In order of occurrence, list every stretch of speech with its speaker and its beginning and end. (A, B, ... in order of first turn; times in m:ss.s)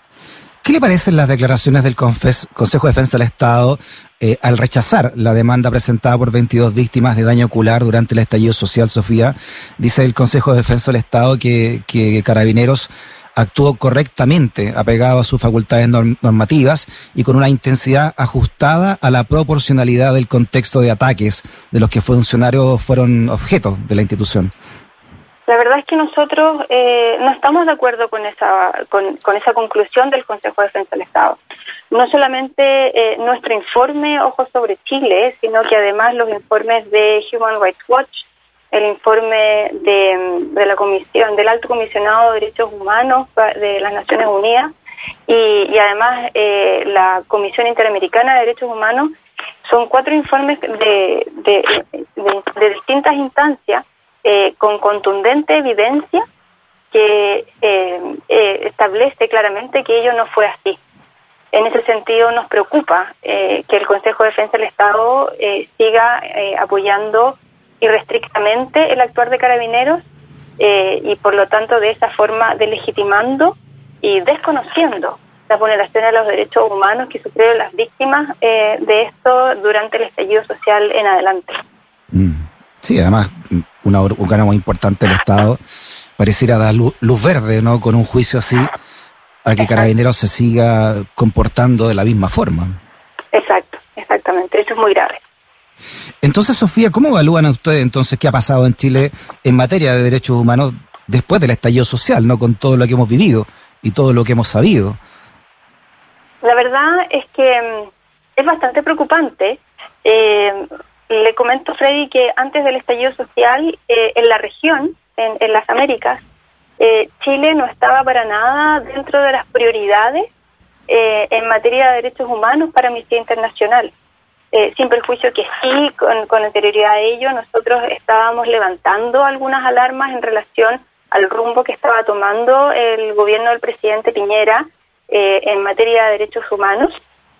0:00.6-0:24.5 A
0:25.5-0:31.4 B
0:31.9-0:44.7 B
0:45.3-0:49.1 B
0:49.6-0:56.2 B
0:56.9-1:00.8 B
1:01.5-1:10.0 B
1:10.6-1:21.6 B
1:22.1-1:25.6 A
1:26.2-1:28.7 A
1:29.4-1:32.8 A
1:29.6-1:29.9 B
1:33.3-1:35.2 B
1:36.2-1:45.0 A
1:46.4-1:56.2 B
1:56.8-2:00.3 B
2:00.9-2:03.9 B
2:04.5-2:17.0 B